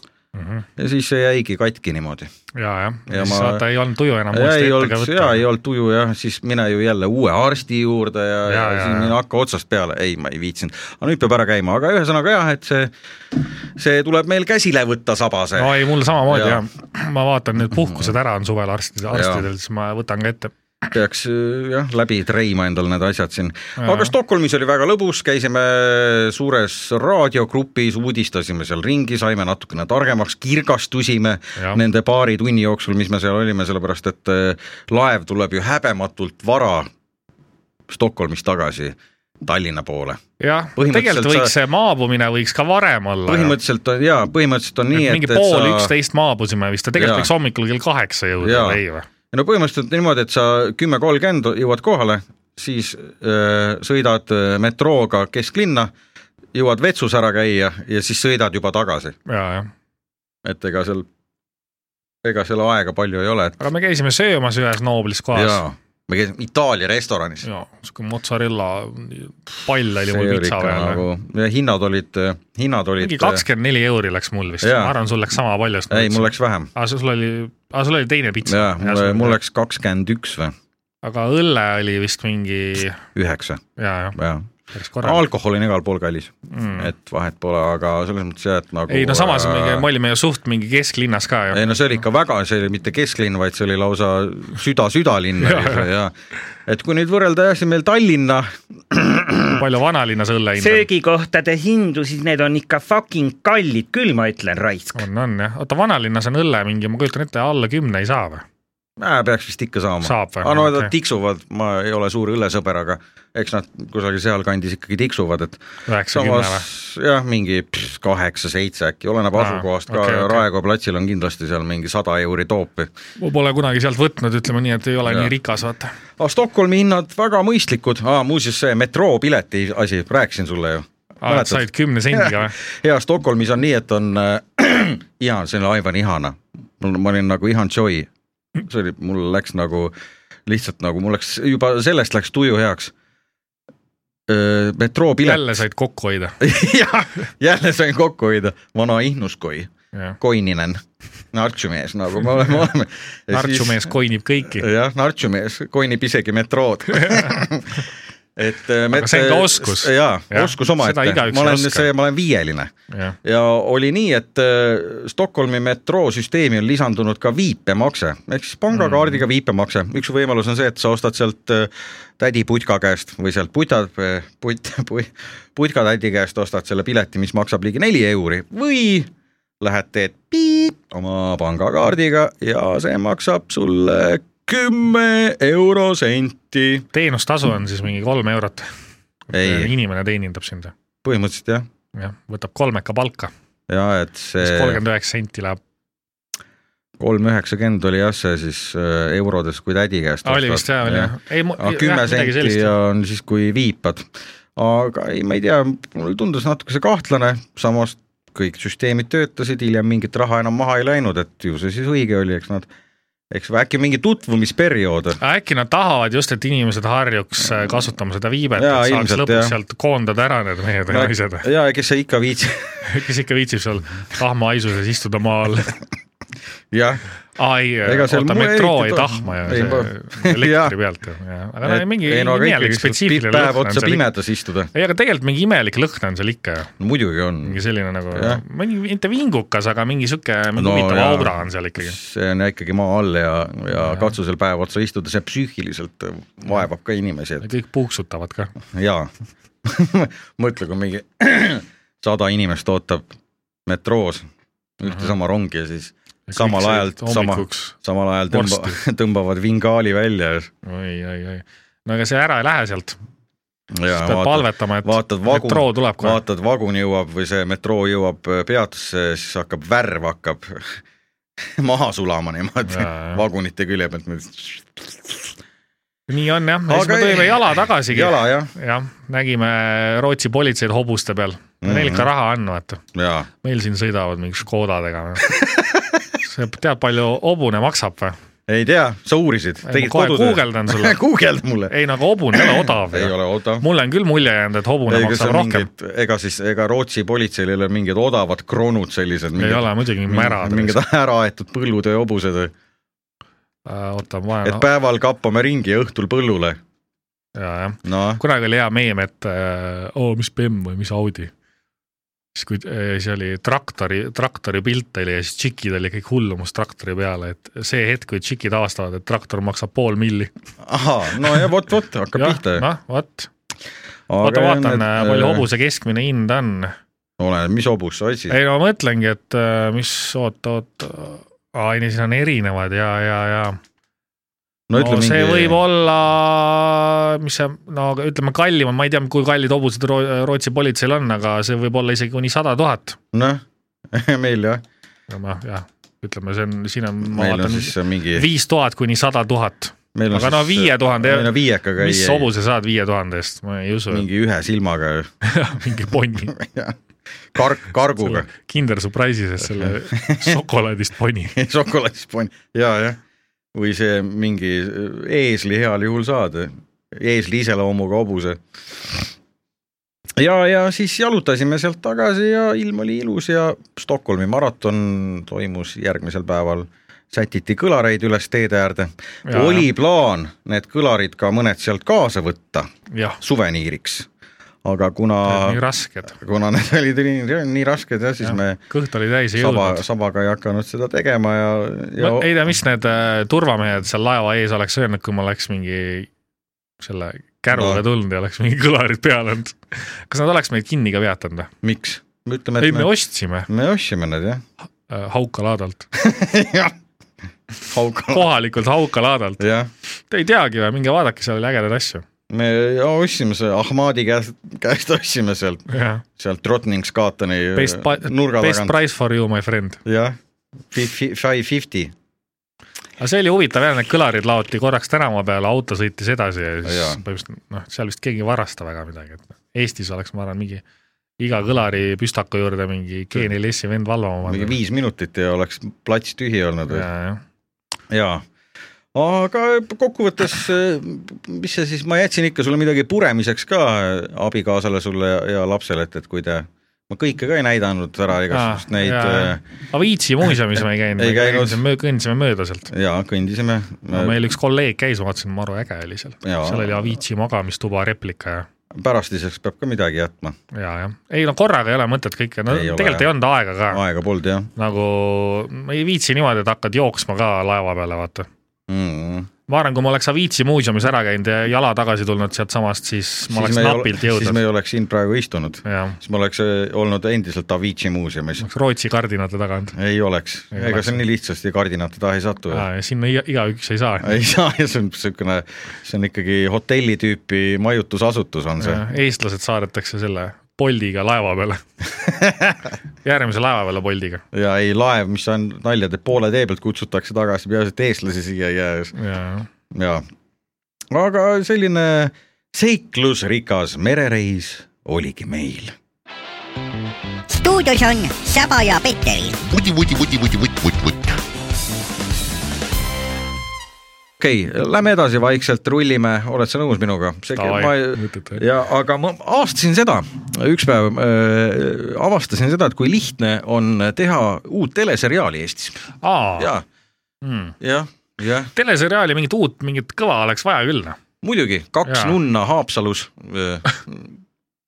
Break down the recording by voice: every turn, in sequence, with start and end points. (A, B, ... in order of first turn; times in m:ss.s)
0:00.3-0:00.7 A
0:00.8-0:02.3 B
0:02.6-0:05.4 A
0:03.1-0:03.6 B
0:04.3-0:16.6 B
0:08.5-0:09.1 A
0:15.6-0:20.5 A
0:17.7-0:18.1 B
0:19.1-0:19.4 B
0:20.9-0:36.9 B
0:23.8-0:24.1 A
0:37.9-0:40.2 B
0:40.4-0:43.6 A
0:40.8-0:41.5 B
0:43.3-0:45.9 B
0:44.9-0:49.0 A
0:47.0-0:47.3 B
0:48.4-0:48.8 B
0:49.3-0:55.9 B
0:56.5-0:59.2 B
0:59.3-0:59.7 A
1:00.4-1:01.1 B
1:02.2-1:03.6 B
1:03.6-1:05.6 A
1:05.3-1:07.4 B
1:07.4-1:11.0 A
1:10.0-1:13.4 B
1:13.0-1:19.4 A
1:14.6-1:14.9 B
1:15.9-1:16.7 B
1:18.4-1:20.5 B
1:21.0-1:23.0 A
1:23.1-1:23.6 B
1:23.8-1:24.2 A
1:24.1-1:24.5 B
1:24.7-1:25.2 A
1:25.0-1:29.8 B
1:26.5-1:26.9 A
1:28.9-1:31.8 A
1:31.5-1:36.1 B
1:35.4-1:35.9 A
1:36.6-1:39.6 B
1:39.5-1:40.8 A
1:40.6-1:45.0 C
1:44.9-1:48.4 A
1:49.0-2:02.9 B
1:50.0-1:50.9 A
1:55.9-1:56.6 A
1:59.4-2:00.4 A
2:03.2-2:05.9 A
2:05.0-2:05.3 B
2:06.2-2:18.1 B
2:11.2-2:12.6 A
2:18.6-2:19.9 B
2:20.4-2:22.9 B
2:24.3-2:25.6 B
2:25.2-2:26.4 A
2:26.4-2:30.8 B
2:31.3-2:33.9 B
2:33.3-2:34.7 A
2:34.5-2:42.7 B
2:36.9-2:37.3 A
2:38.9-2:41.9 A
2:42.9-2:43.2 A
2:43.2-3:06.8 B
2:48.7-2:49.2 A
3:06.9-3:08.7 A
3:09.3-3:10.7 A
3:09.3-3:09.7 B
3:11.0-3:11.7 B
3:11.9-3:13.3 A
3:13.7-3:14.8 B
3:14.4-3:15.6 A
3:17.0-3:32.7 B
3:20.2-3:22.7 A
3:33.3-3:35.2 B
3:35.2-3:41.4 A
3:38.6-3:39.5 B
3:40.9-3:42.9 B
3:42.8-3:45.8 A
3:46.7-3:47.0 B
3:47.4-3:54.0 A
3:47.8-3:50.7 B
3:51.6-3:54.7 B
3:54.7-3:56.7 A
3:56.8-3:57.6 B
3:57.4-4:02.0 A
3:58.1-3:58.4 B
4:00.6-4:07.4 B
4:03.7-4:04.1 A
4:07.4-4:08.5 A
4:08.7-4:09.1 B
4:09.6-4:13.1 B
4:13.7-4:14.3 B
4:14.8-4:20.5 B
4:14.8-4:15.1 A
4:16.3-4:17.8 A
4:18.3-4:18.8 A
4:20.6-4:23.0 A
4:23.7-4:30.8 B
4:23.9-4:26.2 A
4:31.4-4:35.3 B
4:32.6-4:33.2 A
4:36.1-4:42.8 A
4:36.7-4:38.5 B
4:41.6-4:42.1 B
4:42.9-4:43.3 B
4:43.4-4:45.3 A
4:45.3-4:46.0 B
4:46.2-4:48.2 A
4:48.5-4:51.7 B
4:49.6-4:51.0 A
4:51.7-4:55.7 A
4:52.3-4:53.6 B
4:54.9-5:02.5 B
4:59.4-5:00.8 A
5:03.6-5:04.6 A
5:04.4-5:06.6 B
5:07.4-5:11.3 A
5:07.8-5:08.2 B
5:12.3-5:20.3 A
5:20.6-5:22.7 B
5:22.2-5:23.3 A
5:24.1-5:25.4 B
5:24.2-5:26.7 A
5:27.2-5:28.4 B
5:28.3-5:33.6 A
5:34.7-5:35.6 B
5:34.8-5:43.0 A
5:43.1-5:44.6 B
5:45.1-5:54.0 A
5:47.0-5:48.2 B
5:49.9-5:52.3 B
5:53.9-5:55.1 B
5:55.2-5:56.4 A
5:56.3-5:56.8 B
5:57.3-5:58.3 B
5:58.0-6:01.4 A
5:59.6-6:00.4 B
6:01.3-6:03.0 B
6:03.5-6:09.1 B
6:10.2-6:22.7 B
6:19.3-6:19.7 A
6:22.9-6:23.2 A
6:23.2-6:24.1 B
6:24.6-6:28.6 B
6:25.2-6:26.2 A
6:28.2-6:29.8 A
6:29.4-6:32.4 B
6:32.0-6:36.1 A
6:36.8-6:41.5 A
6:37.5-6:37.8 B
6:41.6-6:42.9 B
6:42.6-6:43.5 A
6:43.5-6:44.4 B
6:44.9-6:45.9 A
6:45.9-6:46.7 B
6:47.6-6:48.3 B
6:48.1-6:49.4 A
6:49.4-6:49.7 B
6:50.1-6:52.0 A
6:52.3-6:58.8 B
6:55.7-6:56.0 A
6:57.5-6:59.8 A
6:59.8-7:00.2 B
7:00.7-7:01.9 B
7:03.0-7:10.6 A
7:06.6-7:07.0 B
7:11.2-7:14.6 A
7:14.3-7:16.9 B
7:16.7-7:17.2 A
7:17.9-7:18.2 B
7:18.9-7:29.4 B
7:28.3-7:32.7 A
7:31.0-7:31.6 B
7:32.7-7:34.2 B
7:33.9-7:38.5 A
7:36.2-7:36.9 B
7:38.7-7:40.4 B
7:40.5-7:43.8 A
7:42.5-7:43.1 B
7:43.7-7:44.5 B
7:44.6-7:48.3 A
7:48.7-7:49.3 B
7:49.5-7:54.4 A
7:53.3-7:58.4 B
7:55.6-7:56.0 A
7:58.4-7:59.8 A
7:59.8-8:02.6 B
8:00.5-8:01.0 A
8:02.5-8:04.2 A
8:04.0-8:08.8 B
8:08.6-8:11.6 A
8:12.0-8:12.7 B
8:13.0-8:14.2 A
8:14.3-8:18.9 B
8:19.0-8:19.5 A
8:19.7-8:20.0 B
8:20.9-8:25.7 B
8:27.3-8:29.3 D
8:28.1-8:31.2 E
8:34.2-8:45.8 B
8:37.3-8:38.4 A
8:46.0-8:46.5 A
8:46.4-8:46.6 B
8:47.2-8:47.5 A
8:47.6-8:48.5 B
8:48.5-8:51.0 A
8:51.2-8:54.1 B
8:51.8-8:52.2 A